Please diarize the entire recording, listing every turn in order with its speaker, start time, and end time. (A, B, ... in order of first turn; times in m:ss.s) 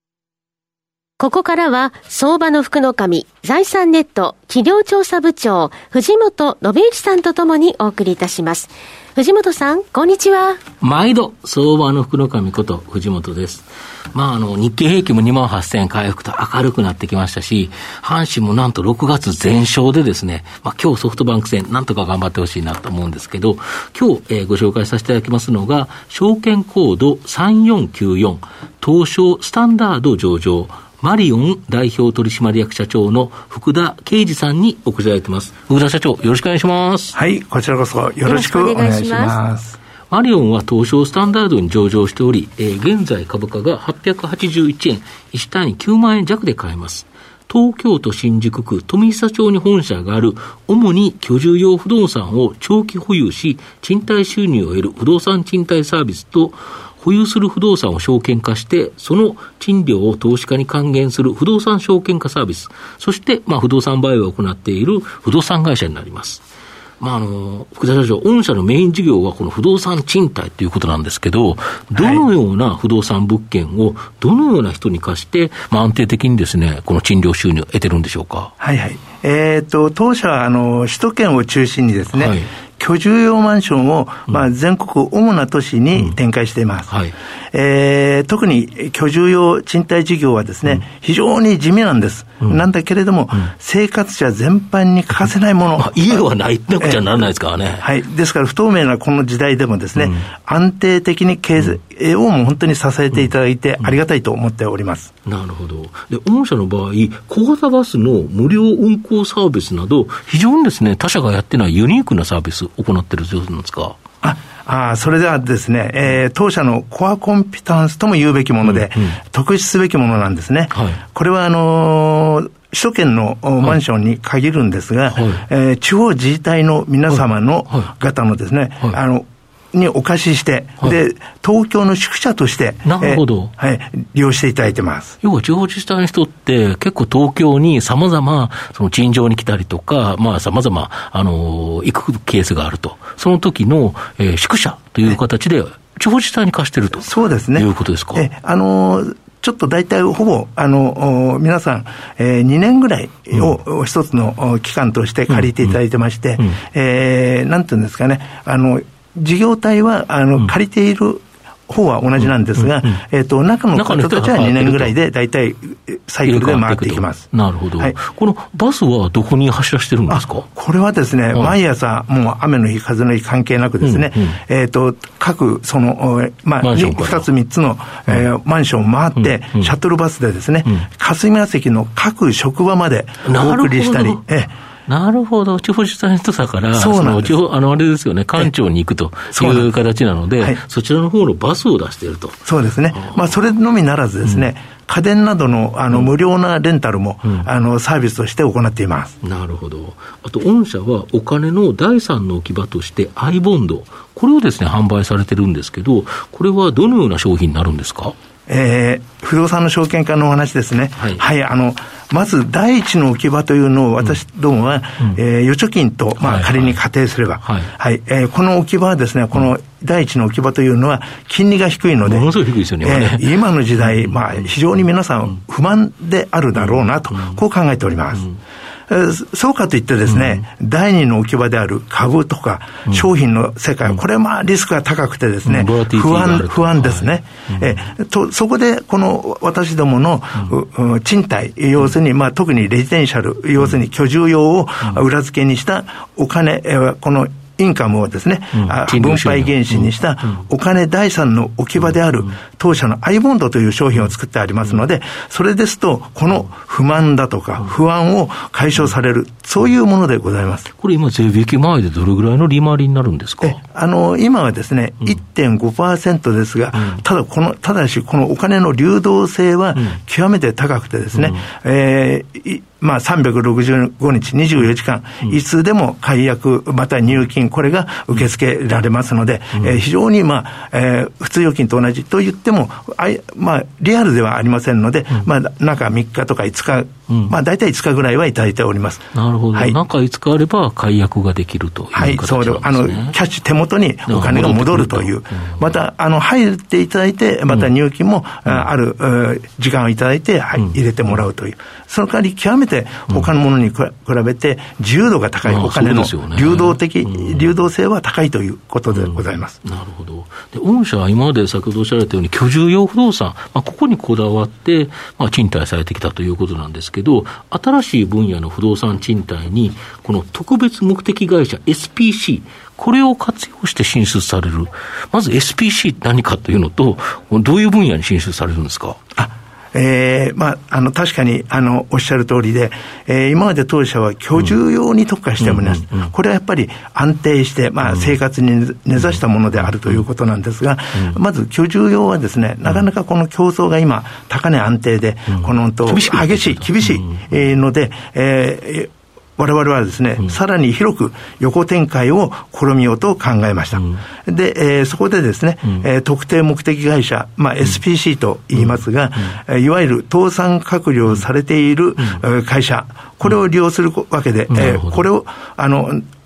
0:01.2-0:10.6 A
0:10.8-0:37.2 B
0:37.1-0:39.8 C
0:38.2-0:39.4 A
0:40.1-1:06.4 B
1:07.0-1:18.5 B
1:12.0-1:12.3 C
1:18.6-1:26.9 C
1:22.1-1:22.5 B
1:26.9-1:27.1 B
1:27.5-1:36.2 C
1:35.8-1:37.8 B
1:36.8-1:37.2 C
1:37.8-1:45.1 C
1:40.0-1:40.2 B
1:45.3-1:54.0 B
1:54.2-2:15.2 C
1:58.6-1:59.2 B
2:00.7-2:01.0 B
2:05.1-2:05.4 B
2:07.1-2:07.9 B
2:12.8-2:13.5 B
2:15.2-2:28.3 B
2:27.0-2:47.3 C
2:35.3-2:35.7 B
2:42.6-2:43.0 B
2:43.8-2:45.0 B
2:46.2-2:50.5 B
2:50.1-3:04.5 C
2:53.8-2:54.4 B
2:56.6-2:57.3 B
2:59.2-2:59.7 B
3:03.3-3:04.2 B
3:04.9-3:12.4 B
3:06.7-3:07.4 C
3:09.3-3:09.7 C
3:12.4-3:19.2 C
3:12.9-3:13.4 B
3:19.2-3:28.2 B
3:28.5-3:42.3 C
3:36.2-3:36.8 B
3:37.4-3:37.7 B
3:42.0-3:43.2 B
3:42.8-3:48.3 C
3:43.8-3:44.2 B
3:46.6-3:47.4 B
3:48.9-4:20.7 C
3:50.1-3:50.4 B
3:55.4-3:57.8 B
4:08.6-4:10.4 B
4:20.8-4:23.6 B
4:23.4-4:49.8 C
4:26.8-4:27.0 B
4:31.1-4:31.4 B
4:49.1-4:53.2 B
4:51.9-5:09.6 C
4:54.1-4:55.8 B
5:00.6-5:01.2 B
5:05.4-5:07.5 B
5:08.9-5:29.0 B
5:29.2-6:06.0 C
5:35.4-5:36.1 B
5:37.8-5:38.2 B
5:39.0-5:40.0 B
5:45.3-5:47.3 B
5:53.8-5:54.0 B
5:58.6-5:58.8 B
6:04.5-6:05.0 B